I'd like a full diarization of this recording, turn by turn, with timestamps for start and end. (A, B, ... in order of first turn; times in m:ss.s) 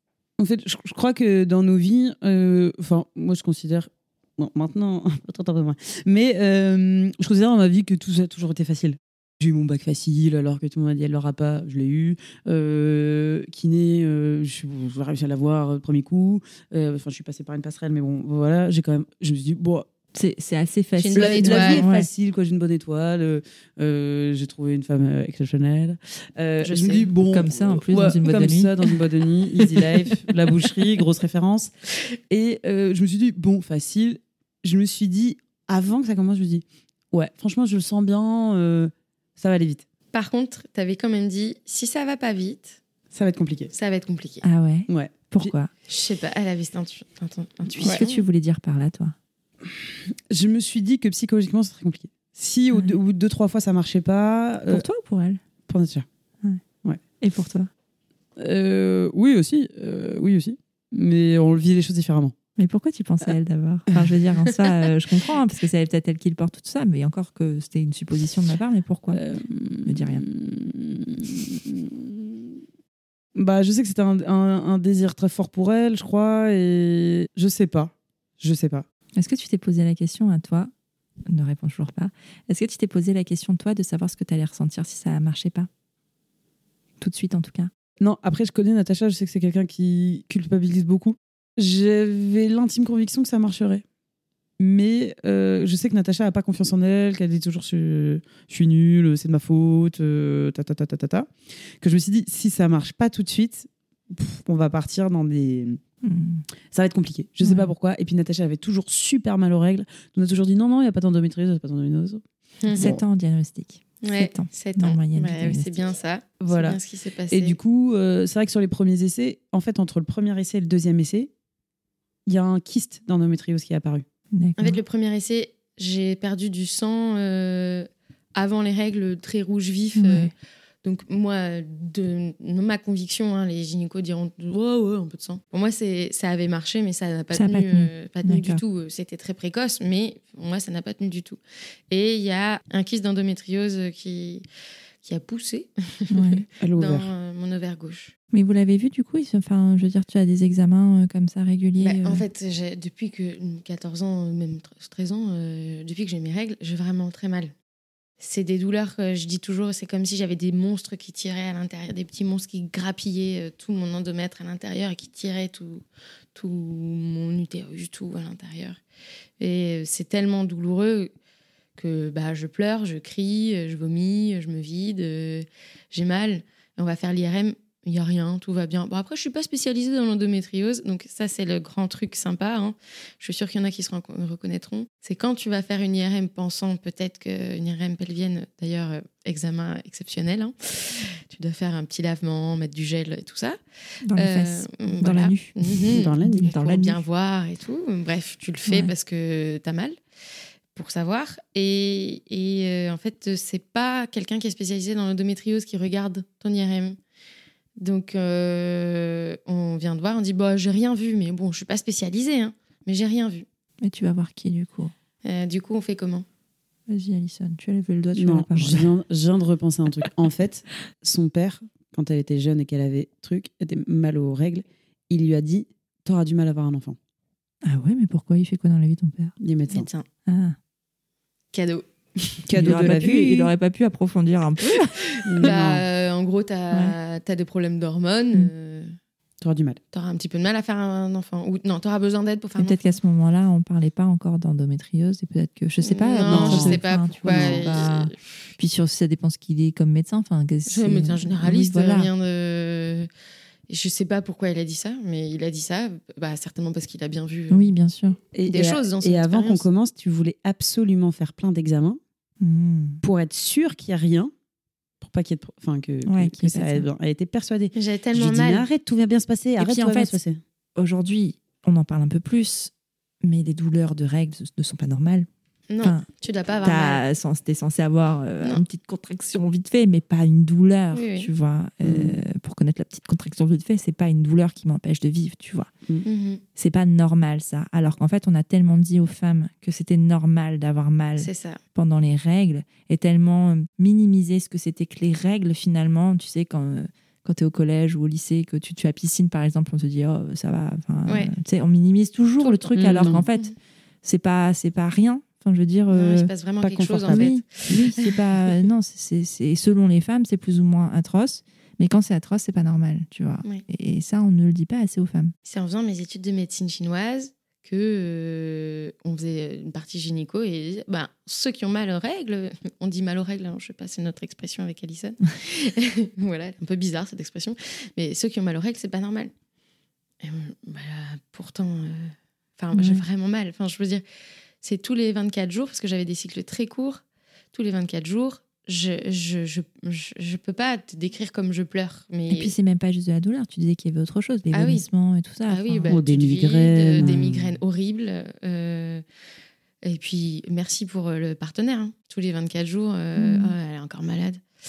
0:00.4-0:19.9 A
0:20.1-0:22.1 B
0:21.0-0:21.9 C
0:21.1-0:31.7 A
0:26.6-0:27.1 C
0:27.3-0:28.8 B
0:32.3-0:39.9 A
0:40.1-0:42.8 C
0:43.1-0:43.7 A
0:43.7-0:44.4 C
0:44.4-0:45.7 B
0:44.9-0:45.5 A
0:45.9-0:48.2 C
0:47.8-0:49.2 B
0:49.6-0:54.8 A
0:54.7-0:55.4 B
0:55.7-0:56.1 A
0:57.2-0:57.7 B
0:58.4-1:02.4 A
1:02.6-1:09.2 B
1:09.1-1:12.6 A
1:09.9-1:10.2 B
1:13.4-1:18.9 A
1:19.2-1:20.7 B
1:21.3-1:25.7 B
1:27.0-1:27.7 B
1:28.0-1:33.8 A
1:34.6-1:45.8 A
1:46.0-1:46.4 B
1:46.7-1:53.0 A
1:47.4-1:47.7 B
1:52.6-1:52.9 C
1:52.7-1:55.8 B
1:54.0-1:57.6 C
1:56.4-1:56.8 A
1:57.3-2:01.3 A
2:02.3-2:04.0 A
2:04.3-2:04.8 B
2:04.6-2:10.3 C
2:10.0-2:10.3 B
2:10.8-2:24.4 C
2:17.3-2:18.6 B
2:25.0-2:28.1 C
2:26.1-2:26.4 B
2:26.6-2:27.1 A
2:28.3-2:32.3 B
2:31.8-2:37.5 C
2:38.2-2:45.8 C
2:46.4-2:48.8 C
2:49.4-2:51.1 C
2:51.8-3:13.6 C
3:14.0-3:17.0 B
3:14.2-3:20.0 C
3:15.9-3:16.5 A
3:18.7-3:18.9 B
3:20.8-3:27.0 C
3:27.8-3:33.5 C
3:33.8-3:34.9 B
3:35.2-3:36.2 C
3:36.9-3:38.9 B
3:38.2-3:47.0 A
3:47.6-3:50.6 B
3:49.4-3:49.9 A
3:49.7-3:50.1 C
3:51.5-3:52.5 C
3:52.5-3:53.5 A
3:52.5-3:55.5 B
3:54.8-3:59.0 C
3:55.2-3:55.8 A
3:59.4-3:59.8 A
3:59.9-4:02.8 C
4:02.6-4:12.1 B
4:05.8-4:08.2 C
4:06.3-4:07.7 A
4:10.7-4:13.1 C
4:13.7-4:17.7 C
4:17.5-4:18.2 B
4:18.3-4:22.0 A
4:18.5-4:19.6 C
4:22.4-4:23.0 B
4:23.0-4:24.3 A
4:25.0-4:30.4 A
4:26.1-4:26.9 B
4:27.8-4:28.7 C
4:29.6-4:30.2 B
4:30.8-4:32.7 B
4:33.2-4:35.3 B
4:35.7-4:37.0 C
4:35.8-4:36.1 B
4:36.6-4:45.7 B
4:40.9-4:41.3 C
4:41.8-4:42.2 A
4:46.0-4:46.4 C
4:46.6-5:06.3 B
4:51.2-4:51.6 C
5:01.1-5:01.3 C
5:02.4-5:03.5 C
5:02.8-5:03.2 A
5:05.9-5:08.2 C
5:06.6-5:07.3 A
5:07.1-5:15.3 B
5:15.5-5:29.3 C
5:30.2-5:34.0 C
5:32.7-5:33.0 B
5:34.6-5:42.5 C
5:42.3-5:46.0 B
5:44.5-5:44.9 C
5:45.5-5:49.0 C
5:45.9-5:47.6 A
5:49.8-5:54.4 C
5:53.2-5:53.5 B